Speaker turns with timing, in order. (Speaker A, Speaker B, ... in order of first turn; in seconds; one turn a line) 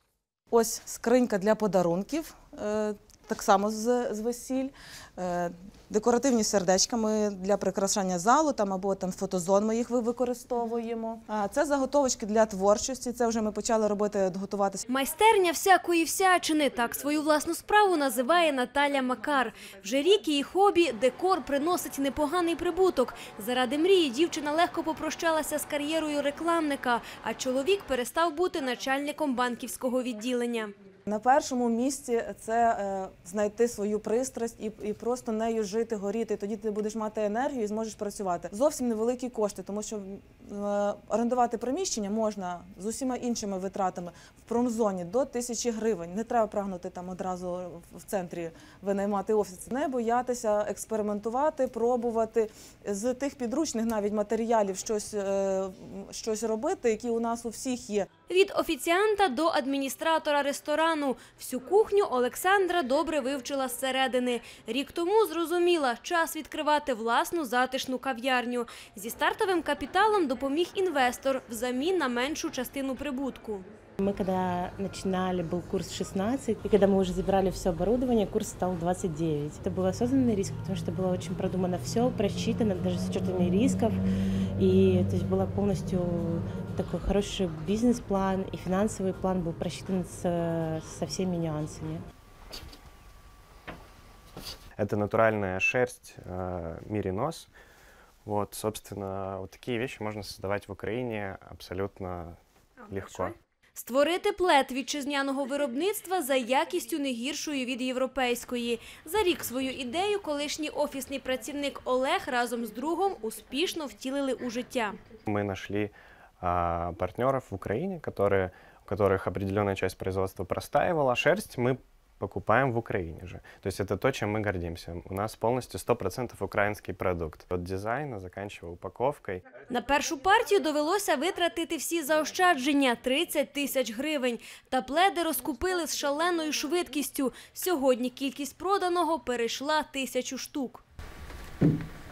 Speaker A: 0.5-14.8
Speaker B: 14.9-30.8
Speaker A: 31.1-58.1
Speaker B: 58.3-73.7
Speaker C: 74.0-84.0
Speaker C: 84.6-92.0
Speaker D: 94.8-97.5
Speaker D: 98.2-103.3
Speaker B: 103.8-115.0
Speaker D: 115.3-129.4
Speaker B: 129.7-140.8